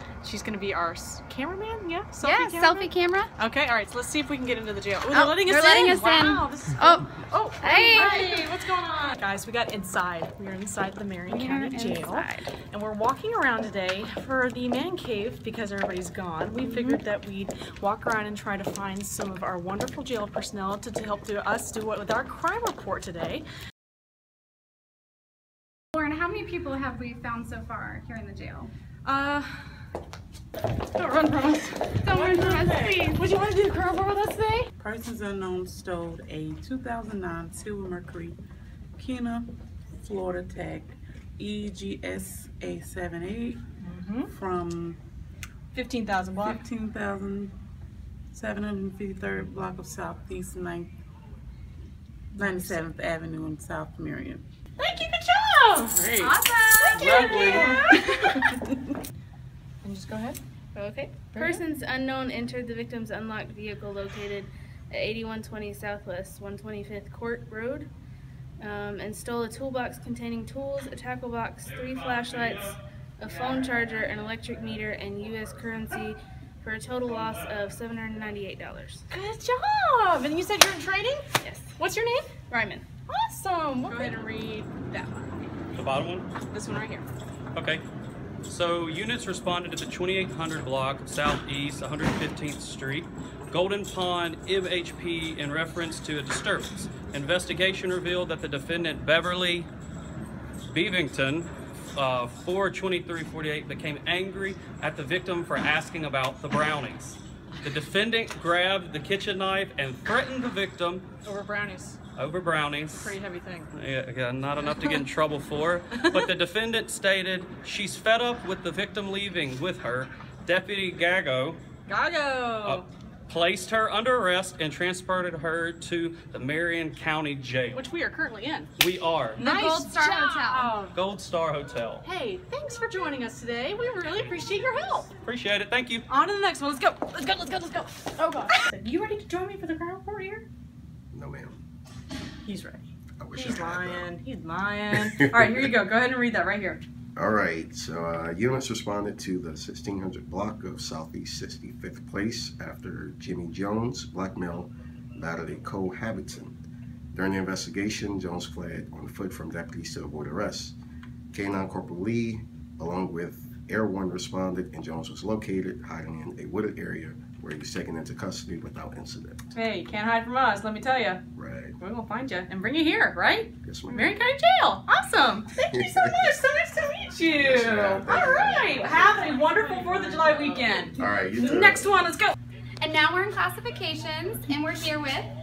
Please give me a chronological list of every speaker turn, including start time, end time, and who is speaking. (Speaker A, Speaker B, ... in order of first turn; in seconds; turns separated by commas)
Speaker A: 0.2-23.4, Speaker B: 2.3-3.1, Speaker B: 5.2-6.4, Speaker C: 7.6-8.3, Speaker C: 11.4-12.4, Speaker C: 16.6-17.0, Speaker B: 25.9-28.7, Speaker A: 29.0-29.6, Speaker A: 30.9-34.7, Speaker B: 32.0-33.0, Speaker D: 34.8-38.4, Speaker D: 39.0-43.6, Speaker A: 43.8-44.3, Speaker D: 44.3-45.0, Speaker A: 45.7-46.6, Speaker D: 46.4-47.5, Speaker D: 48.3-50.9, Speaker D: 52.4-54.4, Speaker A: 52.4-52.8, Speaker A: 54.8-58.6, Speaker D: 55.9-56.3, Speaker B: 56.2-56.9, Speaker D: 56.9-58.0, Speaker A: 59.8-60.4, Speaker C: 60.7-67.9, Speaker A: 61.3-61.6, Speaker C: 68.6-79.0, Speaker A: 79.1-82.3, Speaker C: 82.5-82.8, Speaker A: 83.1-85.4, Speaker E: 85.7-86.3, Speaker A: 86.4-87.1, Speaker E: 87.5-87.8, Speaker E: 88.5-99.7, Speaker E: 100.7-111.0, Speaker A: 111.2-112.0, Speaker E: 112.2-113.2, Speaker A: 112.9-113.7, Speaker E: 113.7-121.6, Speaker A: 121.9-122.8, Speaker E: 122.6-127.8, Speaker A: 127.7-128.7, Speaker E: 128.8-129.4, Speaker A: 129.4-131.0, Speaker B: 129.4-130.6, Speaker E: 130.9-132.1, Speaker A: 132.0-135.1, Speaker E: 135.2-136.1, Speaker A: 136.1-140.4, Speaker F: 141.1-141.6, Speaker A: 142.4-142.8, Speaker F: 143.2-144.1, Speaker A: 143.3-146.8, Speaker F: 144.9-145.7, Speaker F: 147.2-156.6, Speaker F: 157.1-160.7, Speaker F: 161.3-169.5, Speaker A: 169.5-171.2, Speaker F: 171.3-171.7, Speaker A: 171.8-182.3, Speaker F: 173.6-174.1, Speaker F: 175.7-176.3, Speaker F: 177.3-178.9, Speaker F: 180.9-182.0, Speaker B: 182.8-185.3